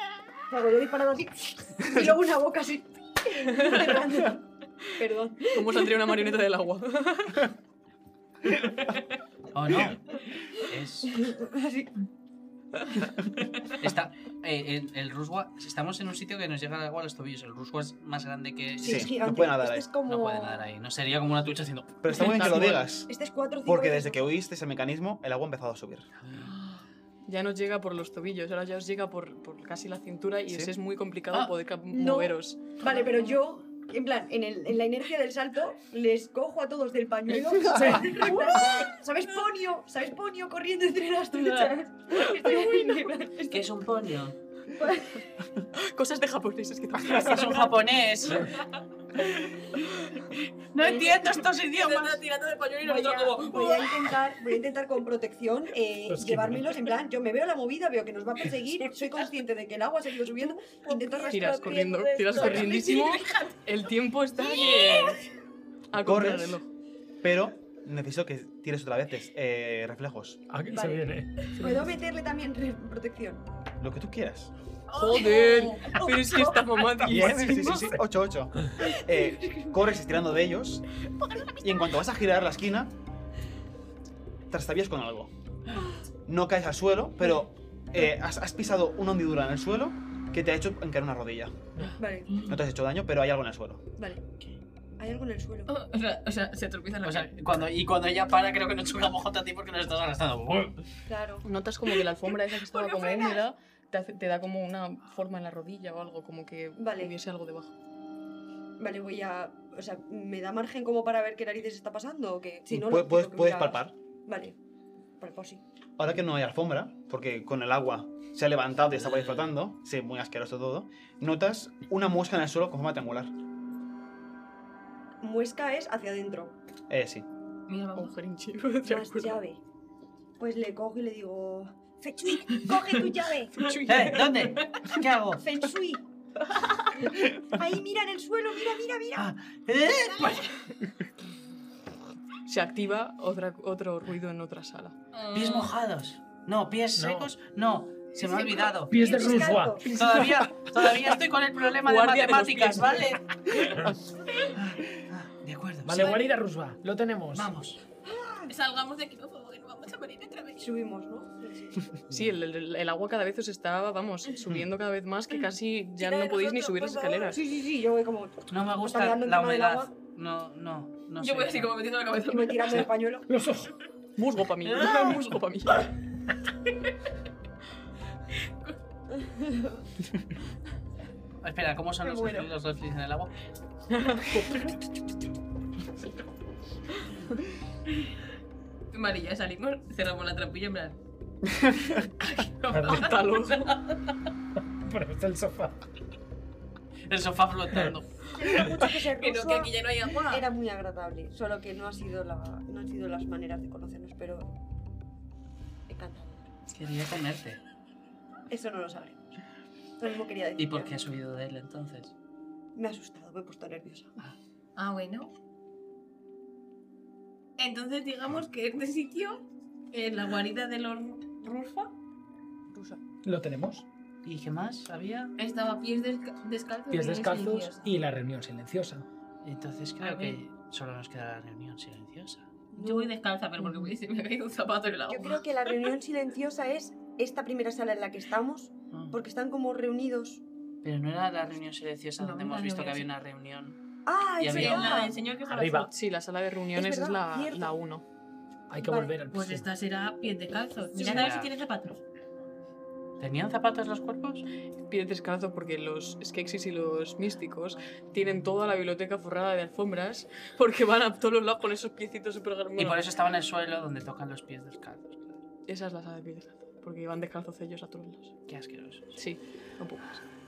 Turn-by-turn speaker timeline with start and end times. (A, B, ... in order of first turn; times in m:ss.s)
0:00.5-0:06.3 A
0:03.6-0:04.0 B
0:05.5-0:07.5 B
0:09.5-0:11.3 C
0:11.1-0:11.9 A
0:13.7-0:19.2 C
0:18.8-0:20.6 A
0:18.8-0:19.9 D
0:20.1-0:22.8 C
0:22.0-0:23.1 D
0:22.4-0:24.4 A
0:23.7-0:26.1 D
0:26.3-0:26.5 C
0:27.3-0:32.8 B
0:30.5-0:30.7 D
0:31.9-0:43.7 A
0:43.5-0:44.4 C
0:44.7-0:45.2 A
0:45.8-0:47.8 B
0:47.1-0:48.6 C
0:50.7-0:52.2 C
0:50.8-0:54.2 E
0:52.8-1:02.7 A
0:56.1-0:56.6 F
1:00.6-1:03.6 E
1:01.3-1:05.2 B
1:04.6-1:05.0 E
1:05.9-1:06.7 B
1:05.9-1:06.6 D
1:07.2-1:10.4 D
1:10.5-1:11.4 F
1:10.7-1:13.4 A
1:13.8-1:14.5 D
1:14.9-1:15.9 E
1:14.9-1:17.8 B
1:15.1-1:17.9 A
1:17.0-1:20.8 D
1:18.8-1:20.0 A
1:21.6-1:22.9 D
1:24.5-1:25.3 D
1:26.3-1:31.5 D
1:32.0-1:32.3 A
1:32.3-1:32.6 E
1:32.5-1:33.8 D
1:34.0-1:34.2 A
1:35.0-1:35.7 A
1:35.7-1:37.3 E
1:37.0-1:40.9 C
1:41.1-1:41.5 A
1:41.4-1:47.8 B
1:42.7-1:43.4 A
1:46.8-1:47.2 A
1:48.8-1:54.6 A
1:52.7-1:53.9 D
1:55.2-1:55.6 A
1:56.0-2:03.3 D
1:59.0-1:59.5 C
2:05.2-2:06.6 A
2:06.9-2:07.3 D
2:07.7-2:08.1 E
2:08.0-2:09.4 B
2:08.8-2:09.6 A
2:10.4-2:13.6 A
2:13.6-2:14.6 B
2:13.9-2:15.5 C
2:15.4-2:16.0 A
2:17.5-2:19.3 A
2:19.2-2:20.6 C
2:22.5-2:25.0 B
2:25.1-2:25.7 E
2:25.3-2:33.7 C
2:27.0-2:27.3 F
2:28.3-2:30.0 A
2:28.9-2:30.3 F
2:30.0-2:30.6 B
2:31.8-2:33.1 B
2:34.5-2:36.2 C
2:35.8-2:37.5 F
2:37.3-2:37.8 C
2:38.0-2:38.5 A
2:38.5-2:40.7 E
2:40.6-2:41.9 A
2:42.1-2:47.4 B
2:46.0-2:49.9 A
2:48.5-2:51.8 C
2:51.2-2:52.8 E
2:52.2-2:53.3 A
2:53.3-2:53.8 F
2:54.2-2:55.9 B
2:54.8-2:55.1 A
2:54.9-2:55.2 C
2:59.1-2:59.8 A
3:01.4-3:03.4 C
3:02.0-3:02.5 A
3:03.9-3:04.7 B
3:04.5-3:04.7 A
3:08.9-3:11.0 E
3:11.5-3:12.0 D
3:12.3-3:14.1 E
3:12.3-3:13.8 B
3:12.7-3:13.1 F
3:14.8-3:15.8 F
3:17.1-3:18.1 C
3:18.3-3:19.7 A
3:19.1-3:20.5 E
3:20.3-3:24.5 A
3:25.9-3:26.5 A
3:26.7-3:27.6 C
3:28.5-3:29.2 A
3:30.0-3:30.9 A
3:30.6-3:32.1 C
3:32.8-3:34.1 A
3:34.8-3:35.3 E
3:37.6-3:41.9 E
3:43.2-3:43.8 F
3:44.2-3:45.4 C
3:45.4-3:47.9 E
3:46.9-3:49.0 F
3:49.4-3:52.5 C
3:50.0-3:50.4 E
3:52.7-3:53.2 A
3:52.8-3:55.8 E
3:55.1-4:00.4 A
3:58.9-3:59.2 C
4:00.8-4:03.8 C
4:02.2-4:03.1 E
4:04.1-4:05.2 A
4:04.4-4:05.0 C
4:04.5-4:05.9 E
4:05.4-4:05.9 F
4:05.9-4:08.0 B
4:06.8-4:07.8 A
4:08.7-4:09.7 F
4:08.7-4:09.2 A
4:09.3-4:12.0 E
4:11.0-4:11.5 C
4:13.2-4:14.5 C
4:14.9-4:23.1 B
4:18.2-4:18.5 C
4:22.8-4:25.4 C
4:25.7-4:28.3 B
4:28.5-4:29.2 C
4:29.2-4:30.2 B